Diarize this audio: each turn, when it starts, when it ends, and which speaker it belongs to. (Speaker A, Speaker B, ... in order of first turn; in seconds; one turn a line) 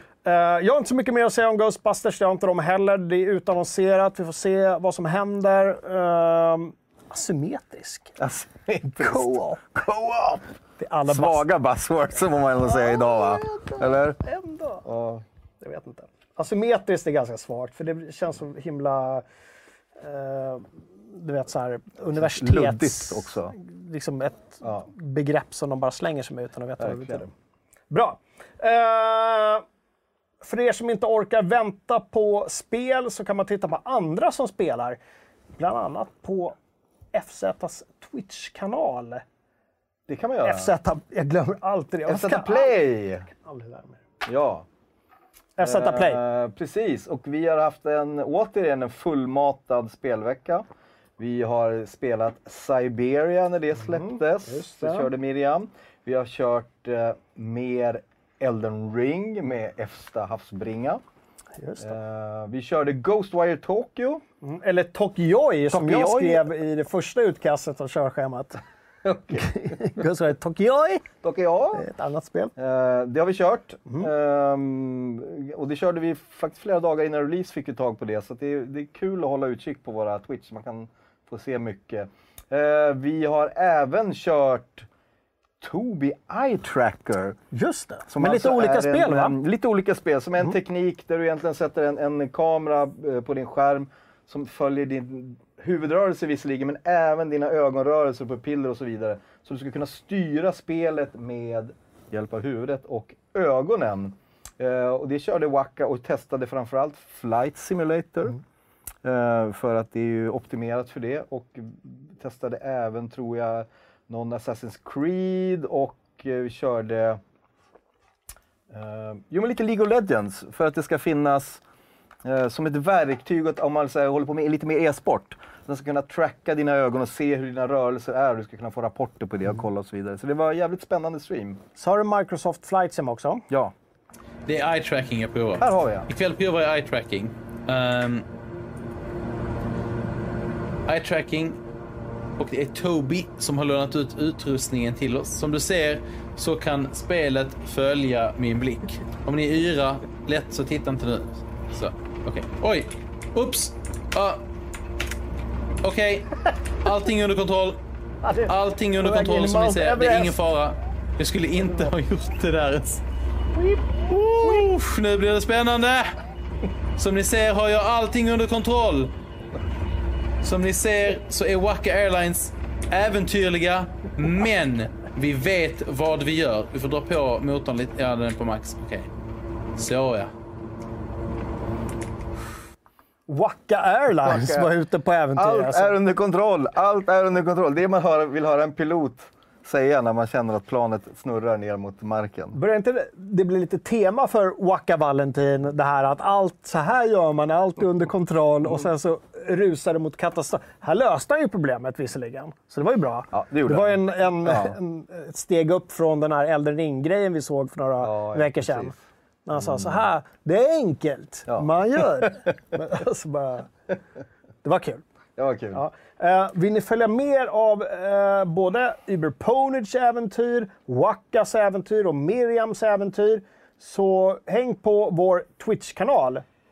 Speaker A: 0.2-8.2
Speaker B: 8.2-10.5
Speaker A: 8.8-9.6
Speaker A: 10.8-11.5
Speaker B: 11.1-14.2
Speaker A: 12.6-14.8
Speaker B: 14.8-15.2
Speaker A: 15.6-19.2
Speaker A: 20.0-27.3
Speaker B: 22.1-23.5
Speaker B: 24.6-24.9
Speaker B: 26.8-27.2
Speaker A: 27.9-29.6
Speaker A: 30.4-35.0
Speaker A: 35.5-36.5
Speaker A: 37.1-39.2
Speaker B: 40.1-40.7
Speaker A: 40.4-44.0
Speaker B: 42.1-43.3
Speaker B: 44.2-44.6
Speaker A: 45.6-46.2
Speaker B: 45.6-50.6
Speaker B: 51.2-61.0
Speaker A: 53.9-55.1
Speaker A: 61.6-62.0
Speaker B: 61.8-64.2
Speaker A: 64.4-68.6
Speaker B: 65.7-66.5
Speaker B: 69.0-69.7
Speaker A: 69.3-71.1
Speaker B: 71.2-71.8
Speaker A: 71.7-72.5
Speaker B: 72.5-84.9
Speaker B: 85.6-87.4
Speaker A: 87.5-89.3
Speaker B: 88.1-108.4
Speaker B: 109.0-117.2
Speaker B: 118.7-121.6
Speaker B: 122.2-131.6
Speaker A: 131.8-133.4
Speaker C: 134.4-138.2
Speaker B: 135.6-136.1
Speaker C: 140.9-141.6
Speaker C: 142.4-154.4
Speaker C: 155.8-157.8
Speaker A: 158.2-160.3
Speaker C: 158.4-163.0
Speaker A: 163.5-164.7
Speaker C: 164.1-166.2
Speaker C: 167.0-169.1
Speaker C: 170.4-179.1
Speaker C: 179.8-180.3
Speaker A: 183.3-186.0
Speaker B: 184.2-184.7
Speaker B: 185.3-192.6
Speaker A: 192.5-208.9
Speaker B: 203.3-204.8
Speaker B: 208.0-208.9
Speaker A: 209.4-213.7
Speaker B: 209.6-210.0
Speaker A: 214.6-215.0
Speaker B: 215.4-215.8
Speaker A: 215.7-226.4